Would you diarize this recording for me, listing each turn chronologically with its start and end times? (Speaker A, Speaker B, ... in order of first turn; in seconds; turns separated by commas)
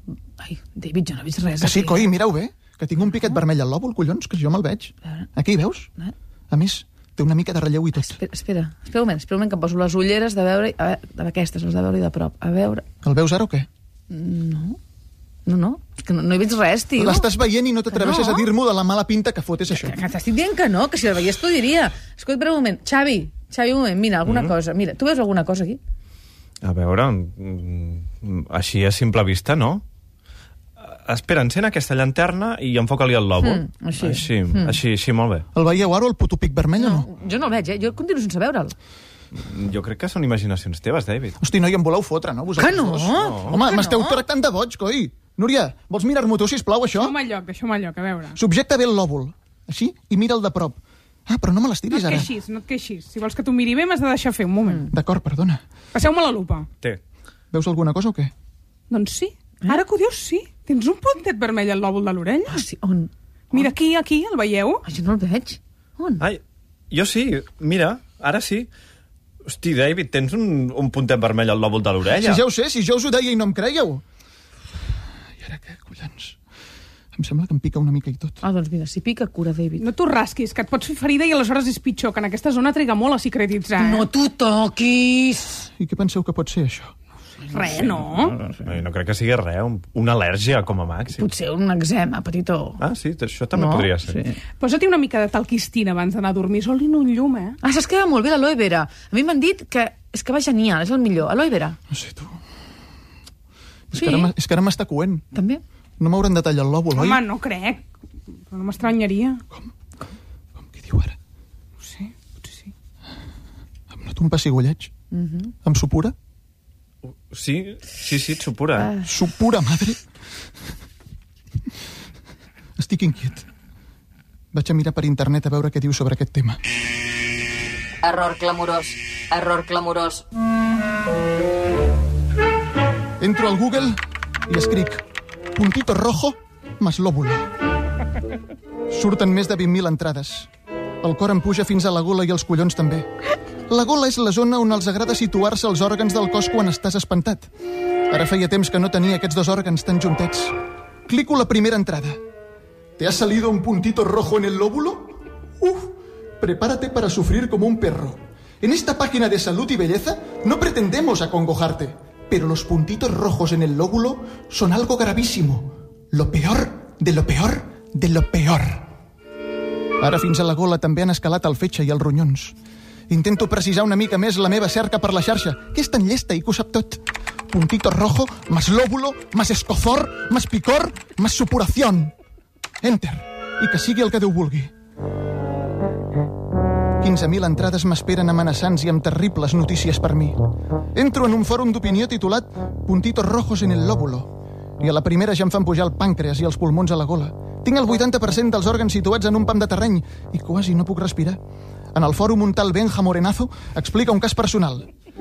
Speaker A: 0.4-2.1, Speaker B: 1.6-5.9, Speaker B: 6.5-8.2, Speaker A: 8.0-12.8, Speaker B: 13.0-13.7, Speaker A: 14.1-14.8, Speaker A: 15.5-17.3, Speaker B: 17.0-20.0, Speaker A: 17.9-18.5, Speaker A: 19.7-25.8, Speaker C: 24.3-24.5, Speaker C: 26.6-29.8, Speaker C: 30.8-35.5, Speaker A: 33.4-34.8, Speaker B: 35.5-37.1, Speaker A: 36.8-38.8, Speaker C: 39.4-41.4, Speaker B: 41.4-47.1, Speaker A: 42.6-44.2, Speaker C: 43.2-43.5, Speaker D: 46.9-48.4, Speaker B: 48.4-52.3, Speaker D: 51.9-54.9, Speaker B: 54.9-55.6, Speaker D: 55.9-56.7, Speaker B: 57.5-58.3, Speaker D: 58.9-62.7, Speaker A: 62.5-63.7, Speaker D: 63.5-64.8, Speaker A: 64.8-66.2, Speaker C: 66.2-68.7, Speaker C: 69.5-72.4, Speaker B: 72.2-74.0, Speaker B: 75.4-76.4, Speaker B: 77.2-78.4, Speaker A: 78.4-79.8, Speaker D: 79.8-84.1, Speaker A: 83.8-85.7, Speaker B: 85.8-86.9, Speaker D: 87.5-88.4, Speaker C: 88.6-91.2, Speaker A: 91.2-92.8, Speaker C: 92.8-94.2, Speaker A: 93.5-94.4, Speaker D: 94.6-97.6, Speaker A: 97.6-101.8, Speaker B: 101.9-102.4, Speaker B: 103.9-105.3, Speaker A: 103.9-104.3, Speaker A: 105.3-105.6, Speaker B: 106.0-107.2, Speaker D: 107.0-107.8, Speaker D: 108.5-109.4, Speaker B: 110.6-111.2, Speaker D: 111.8-112.7, Speaker B: 113.9-114.9, Speaker A: 115.1-115.5, Speaker B: 115.6-116.2, Speaker C: 117.3-119.0, Speaker B: 119.0-120.0, Speaker B: 122.8-123.5, Speaker B: 124.5-126.6, Speaker E: 128.0-130.2, Speaker B: 133.2-134.0, Speaker B: 134.5-135.0, Speaker B: 135.6-137.5, Speaker B: 138.9-140.5, Speaker B: 141.0-143.1, Speaker B: 143.7-147.5, Speaker B: 148.1-150.6, Speaker B: 151.1-152.2, Speaker B: 153.0-168.9, Speaker B: 170.0-172.6, Speaker B: 173.1-182.1, Speaker B: 182.8-184.7, Speaker B: 187.0-190.4, Speaker B: 190.9-201.4, Speaker B: 201.9-204.9